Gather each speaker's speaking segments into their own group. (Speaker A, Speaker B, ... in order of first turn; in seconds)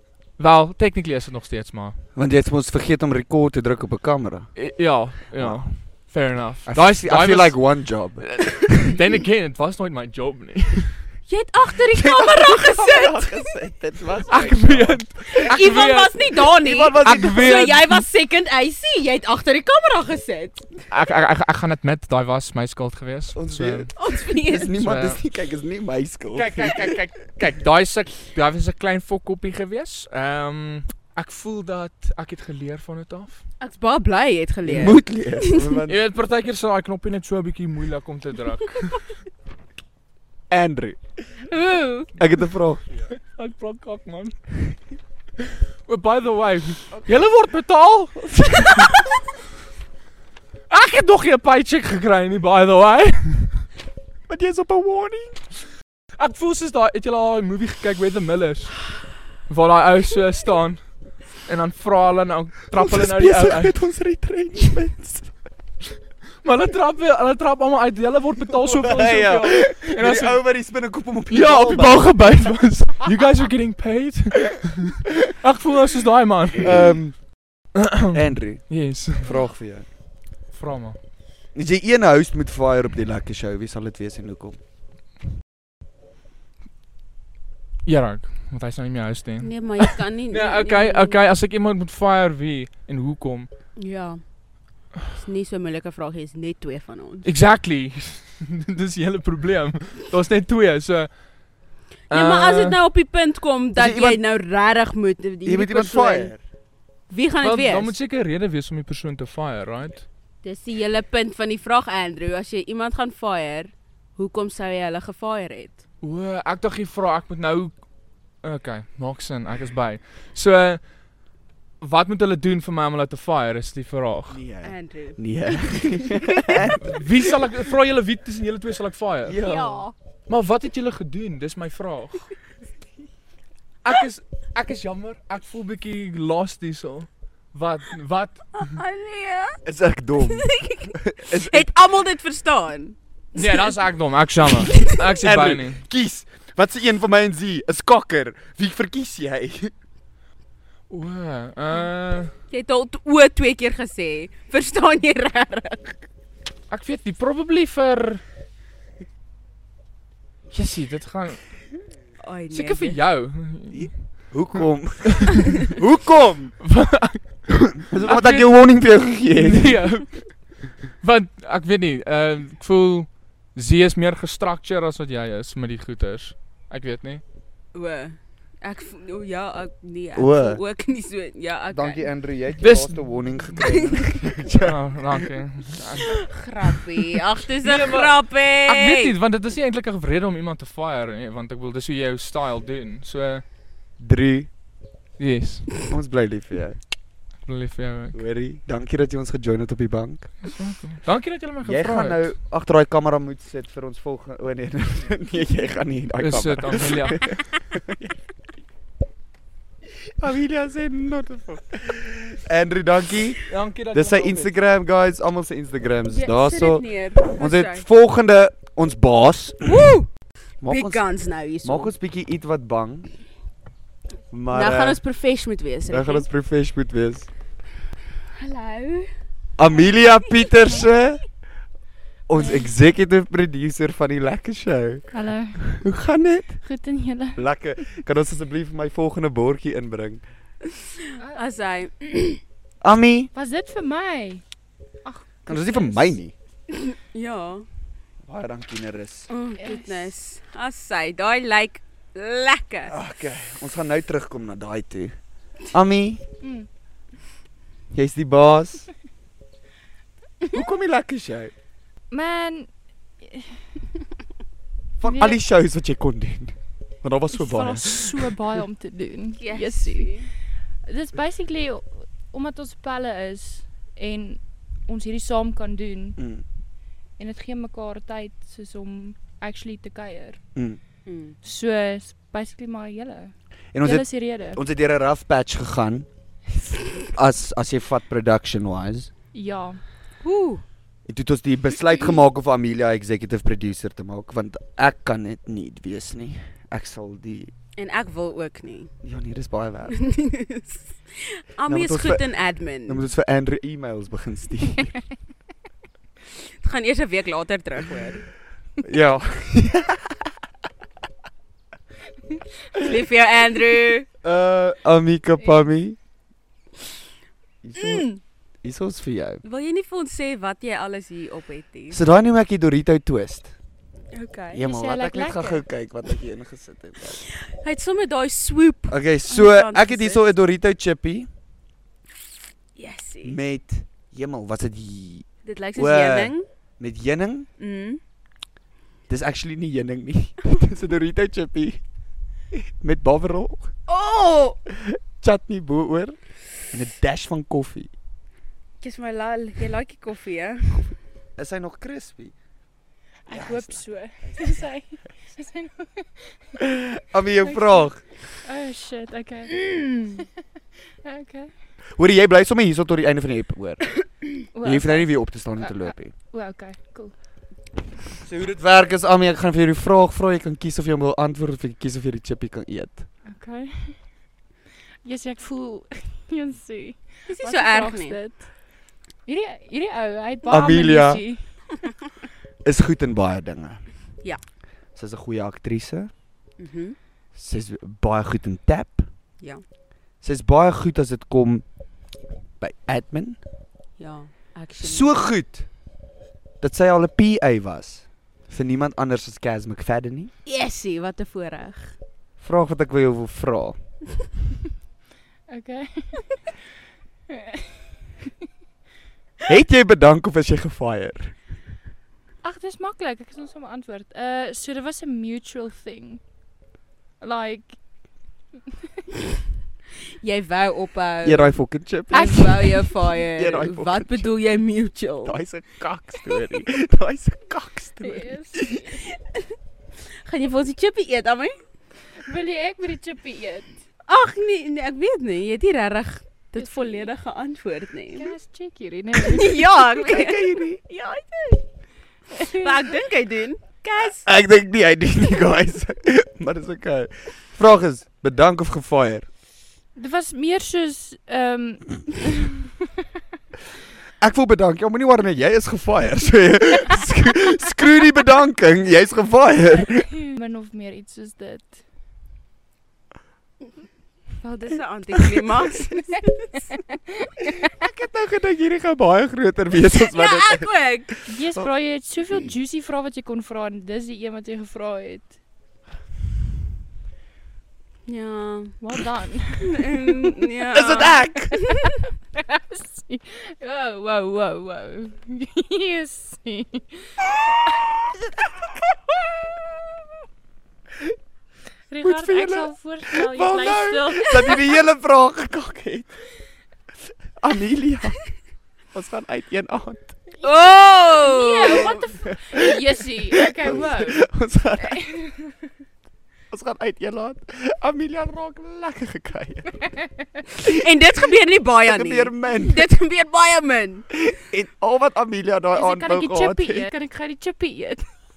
Speaker A: 0.4-2.0, 4.5-11.0, 14.2-16.4, 17.0-18.0, 20.9-23.9, 24.7-25.2, 26.3-33.4, 35.9-39.0, 43.1-44.4, 45.8-49.0, 50.7-53.6, 56.2-63.8, 66.4-70.4, 71.3-77.0, 77.7-79.3, 80.5-81.0, 87.8-93.5, 97.2-101.2, 102.1-102.8, 107.4-110.0, 116.0-117.8, 118.4-120.8, 121.8-124.4, 126.7-129.4, 130.3-132.3, 133.8-138.7, 143.3-145.8, 150.9-152.3, 156.7-158.2, 160.5-161.7, 162.5-165.4, 166.6-177.2, 182.6-183.4, 184.6-186.3, 187.6-193.4, 195.2-195.9, 197.3-198.2, 200.4-202.3, 206.2-207.6, 213.4-214.5
Speaker B: 2.1-4.5, 5.3-5.7, 6.7-8.9, 11.9-15.5, 16.5-17.7, 23.3-23.9, 24.4-27.0, 34.6-36.0, 40.5-41.0, 42.2-42.8, 54.3-55.4, 62.7-65.3, 68.6-72.3, 76.6-77.2, 78.1-79.9, 81.5-84.6, 103.7-104.2, 105.4-106.4, 124.3-126.9, 129.2-129.8, 139.6-141.7, 144.9-149.7, 163.7-166.6, 167.7-170.1, 180.1-180.6, 181.7-185.3, 194.0-194.5, 195.9-196.8, 198.1-200.5, 201.6-208.1, 210.1-219.8, 220.6-221.0, 221.6-223.1, 224.3-225.0, 225.9-227.3, 229.6-231.2, 232.3-236.6, 237.3-240.2, 242.8-243.3, 245.5-246.3, 248.2-249.3, 252.9-255.1, 255.7-256.2, 257.9-258.9, 260.5-261.5, 265.0-268.3, 276.2-276.4, 283.7-286.1, 287.1-289.1, 291.1-297.5, 299.0-300.0, 301.6-302.3, 302.8-304.9, 308.8-310.2, 314.2-316.0, 317.6-318.1, 318.6-319.4, 321.9-323.5, 324.5-327.2, 328.9-331.3, 333.2-337.5, 339.1-341.8, 342.5-343.7, 344.8-346.1, 346.7-347.9, 351.4-352.3, 353.3-354.5, 356.6-358.0, 361.9-366.1, 368.2-373.1, 380.5-381.2, 382.6-383.8, 384.9-386.1, 387.3-389.1, 390.2-391.6, 392.6-393.4, 394.8-395.7, 396.6-400.3, 402.4-403.8, 409.5-411.3, 421.2-424.3, 425.2-428.9, 439.9-440.8, 444.1-449.3, 454.2-460.1, 467.7-470.7, 480.7-481.5, 492.0-496.1, 497.4-498.2, 498.9-500.1, 502.2-505.0, 506.5-509.7, 511.8-512.9, 514.2-516.9
Speaker C: 11.3-13.5, 15.2-20.7, 23.9-24.7, 33.6-35.8, 41.5-42.1, 89.4-91.2, 93.8-94.2, 95.1-97.3, 102.1-106.3, 107.1-107.9, 110.4-115.8, 124.6-126.6, 129.4-129.9, 138.6-139.6, 140.2-143.7, 152.5-156.0, 162.2-163.0, 177.7-182.1, 186.0-189.1, 216.1-217.8, 219.6-220.1, 220.7-221.9, 224.5-226.2, 228.3-229.1, 241.3-242.4, 246.7-247.7, 249.3-252.9, 269.4-270.3, 281.1-281.3, 290.2-290.6, 297.8-298.9, 299.9-303.1, 306.6-308.2, 312.8-314.1, 317.8-318.2, 319.4-322.0, 324.1-324.6, 327.4-330.2, 332.8-333.4, 335.4-336.4, 337.6-338.0, 343.9-344.6, 348.8-350.9, 377.3-378.2, 386.6-387.0, 394.0-395.1, 400.4-401.9, 420.2-421.6, 422.1-425.4, 430.2-431.6, 434.1-438.3, 439.2-441.6, 442.4-444.2, 464.4-466.2, 469.9-471.1, 478.1-478.8, 479.6-481.2, 500.4-502.0, 510.8-514.1
Speaker D: 232.3-232.7, 235.1-235.7, 236.6-237.4, 243.3-244.4, 245.0-246.2, 249.6-250.1, 256.4-256.7, 262.1-262.7, 263.2-263.6, 265.0-265.4, 267.3-270.3, 270.9-276.2, 277.2-280.4, 281.4-284.6, 289.3-289.8, 324.6-325.6, 353.2-356.4, 357.4-357.9, 358.4-360.3, 361.0-361.5, 364.5-367.1, 373.2-374.1, 375.0-378.5, 379.2-381.5, 405.5-406.4, 407.3-407.6, 412.4-416.2, 417.2-417.8, 422.1-422.5, 428.0-428.7, 432.2-433.8, 436.6-437.1, 438.1-439.7, 442.4-442.9, 449.9-452.6, 460.3-461.8, 471.2-475.3, 478.8-480.4, 482.5-487.1, 491.9-494.7, 501.1-504.2, 504.8-505.5, 515.7-518.1